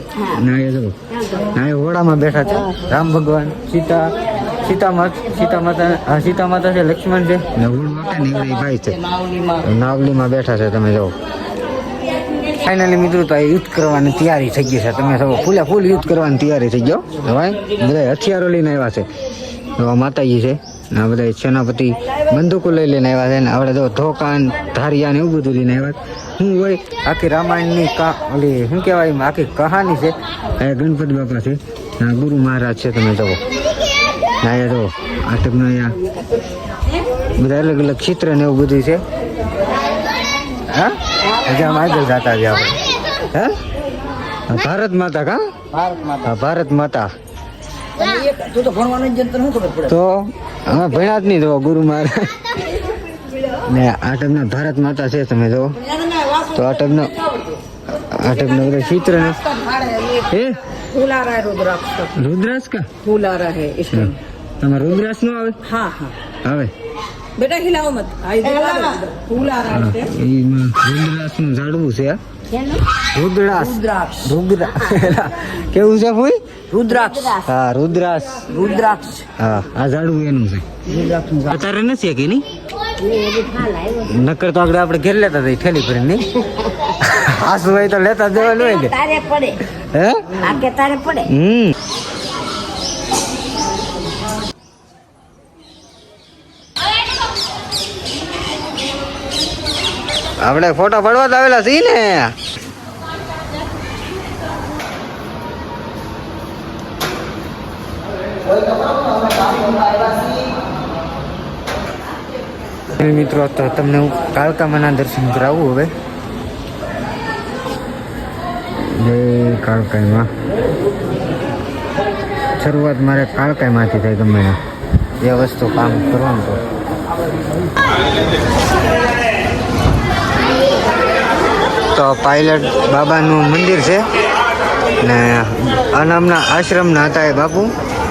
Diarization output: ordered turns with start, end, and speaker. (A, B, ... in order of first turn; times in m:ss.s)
0:00.2-0:11.2 A
0:12.5-0:19.1 A
0:19.7-0:33.4 A
0:34.4-0:36.0 A
0:37.3-0:39.0 A
0:40.7-0:42.8 A
0:43.3-0:43.6 A
0:44.5-0:45.4 A
0:46.1-0:47.1 A
0:48.0-0:49.8 B
0:49.8-0:52.5 A
0:53.5-0:55.8 A
0:56.4-0:57.2 A
0:58.0-0:59.6 A
1:00.1-1:00.6 A
1:00.9-1:02.1 B
1:02.1-1:03.0 A
1:03.0-1:04.0 B
1:03.9-1:05.6 A
1:05.7-1:06.1 B
1:06.4-1:06.7 A
1:07.4-1:09.7 B
1:09.6-1:12.2 A
1:13.1-1:16.4 A
1:13.8-1:14.3 B
1:16.7-1:17.4 B
1:17.4-1:18.5 A
1:18.5-1:19.3 B
1:19.4-1:22.4 A
1:21.0-1:21.4 B
1:23.1-1:23.9 C
1:24.0-1:26.4 A
1:27.0-1:29.1 A
1:29.0-1:29.6 C
1:29.7-1:30.5 A
1:30.6-1:31.2 C
1:31.2-1:31.8 A
1:40.4-1:42.4 A
1:52.9-1:55.9 A
1:58.7-2:00.3 A
2:02.6-2:04.6 A
2:05.2-2:06.6 A
2:11.9-2:14.1 A
2:15.0-2:17.7 A